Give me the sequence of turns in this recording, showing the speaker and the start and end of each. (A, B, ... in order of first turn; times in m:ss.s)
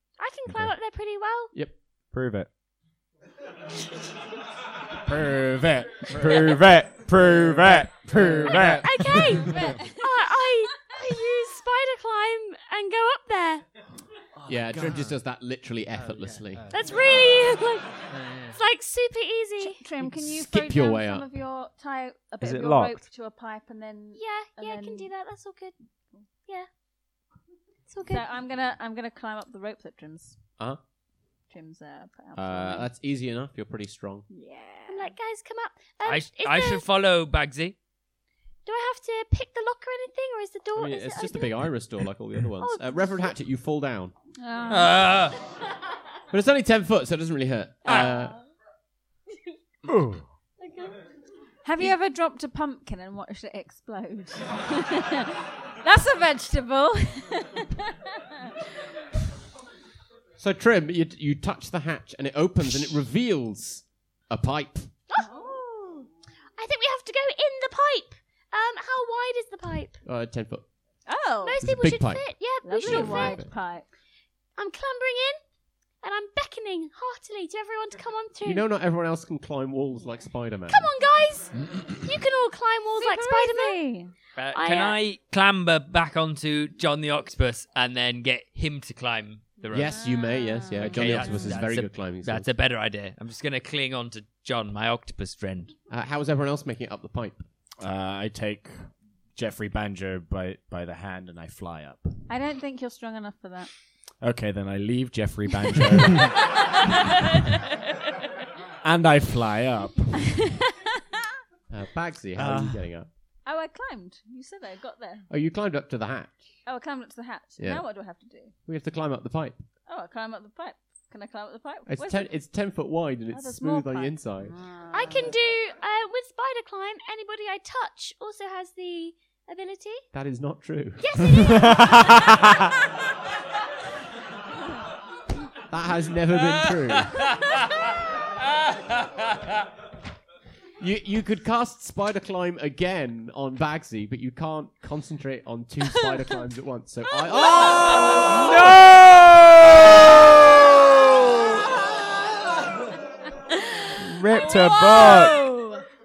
0:00.2-0:01.5 A
0:02.1-0:02.5 B
0:05.0-0:09.0 C
0:06.0-0:09.4 B
0:08.4-0:13.6 A
0:09.5-0:10.0 D
0:14.4-0:15.2 C
0:14.5-0:16.7 E
0:16.7-0:18.0 A
0:18.5-0:19.8 A
0:19.6-0:25.1 D
0:20.0-0:21.3 E
0:22.4-0:23.0 B
0:24.2-0:25.7 A
0:27.9-0:28.2 A
0:28.0-0:30.4 D
0:31.5-0:32.9 D
0:32.4-0:34.3 E
0:34.3-0:35.1 D
0:34.9-0:36.8 A
0:36.0-0:37.8 F
0:38.6-0:41.7 A
0:40.8-0:44.1 E
0:42.6-0:43.4 A
0:44.4-0:45.1 D
0:44.7-0:45.4 F
0:46.3-0:48.3 E
0:47.8-0:48.4 A
0:49.9-0:50.2 C
0:50.6-0:51.0 A
0:51.6-0:58.5 D
1:00.4-1:04.9 E
1:05.2-1:06.1 D
1:06.6-1:10.0 A
1:10.0-1:10.6 E
1:11.1-1:11.6 D
1:11.4-1:13.4 A
1:11.6-1:12.2 E
1:12.6-1:13.8 D
1:12.8-1:13.5 E
1:14.6-1:15.4 A
1:16.0-1:18.6 A
1:18.4-1:20.9 E
1:20.7-1:23.8 A
1:23.0-1:24.1 D
1:24.4-1:30.0 F
1:24.5-1:25.0 A
1:29.7-1:32.5 E
1:29.9-1:31.6 D
1:30.8-1:35.7 F
1:35.9-1:37.4 E
1:37.8-1:42.1 C
1:42.3-1:43.7 D
1:44.2-1:46.4 C
1:48.8-1:50.2 C
1:50.3-1:50.7 D
1:51.7-1:53.1 E
1:52.4-1:52.8 C
1:53.4-1:55.3 D
1:55.3-1:56.4 E
1:56.6-1:58.5 D
1:58.6-1:59.6 E
1:59.9-2:02.3 D
2:01.9-2:04.5 E
2:03.3-2:05.3 D
2:04.9-2:10.0 A
2:10.1-2:11.6 E
2:11.0-2:12.5 A
2:11.7-2:12.4 B
2:15.7-2:17.2 E
2:16.5-2:16.9 F
2:20.8-2:29.0 E
2:27.3-2:28.4 A
2:27.4-2:28.5 D
2:34.0-2:35.3 B
2:34.3-2:35.8 A
2:34.3-2:35.6 D